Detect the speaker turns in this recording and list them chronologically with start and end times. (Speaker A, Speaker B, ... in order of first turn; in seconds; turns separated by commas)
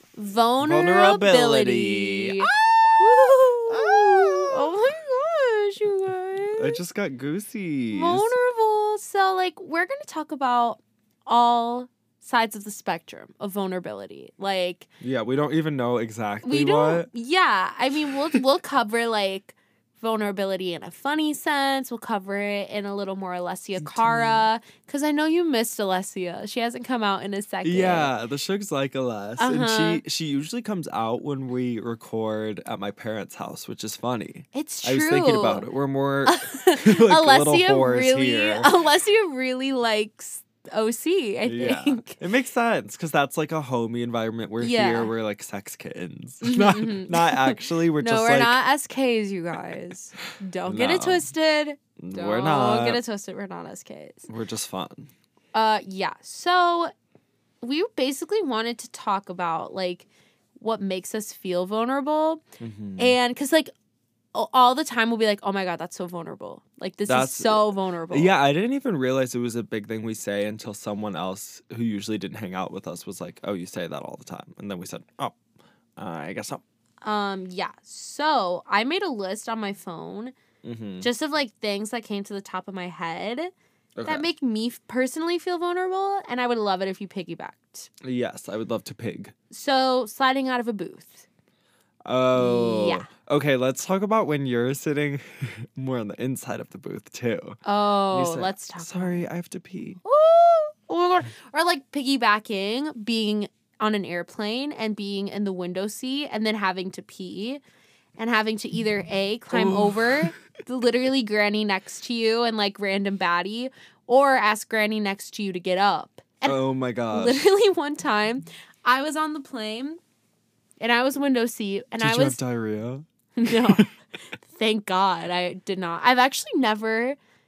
Speaker A: 0.2-6.8, Speaker B: 0.6-2.5, Speaker B: 3.7-4.8, Speaker B: 6.6-8.3, Speaker A: 7.9-14.9, Speaker B: 15.0-17.1, Speaker A: 16.4-28.1, Speaker B: 23.8-24.4, Speaker B: 27.6-38.7, Speaker A: 29.4-30.0, Speaker A: 34.5-35.6, Speaker A: 36.2-42.2, Speaker B: 41.5-48.6, Speaker A: 44.6-45.1, Speaker A: 46.4-54.3, Speaker B: 50.7-51.3, Speaker B: 52.0-53.0, Speaker B: 54.3-55.1, Speaker A: 55.5-56.9, Speaker A: 57.6-62.4, Speaker B: 62.6-63.2, Speaker A: 63.0-63.7, Speaker A: 64.3-68.3, Speaker B: 67.1-75.4, Speaker B: 76.0-76.6, Speaker A: 77.0-80.3, Speaker B: 80.6-81.1, Speaker A: 81.0-83.5, Speaker B: 84.0-84.2, Speaker A: 84.0-87.9, Speaker B: 88.0-89.3, Speaker A: 89.5-91.2, Speaker B: 92.0-97.6, Speaker A: 92.3-93.1, Speaker A: 97.6-99.3, Speaker B: 98.1-100.0, Speaker A: 100.0-107.6, Speaker A: 108.2-116.6, Speaker B: 109.5-110.3, Speaker B: 116.4-117.5, Speaker A: 117.1-120.0, Speaker A: 120.8-122.4, Speaker B: 122.0-123.9, Speaker A: 123.3-123.9, Speaker A: 124.5-127.2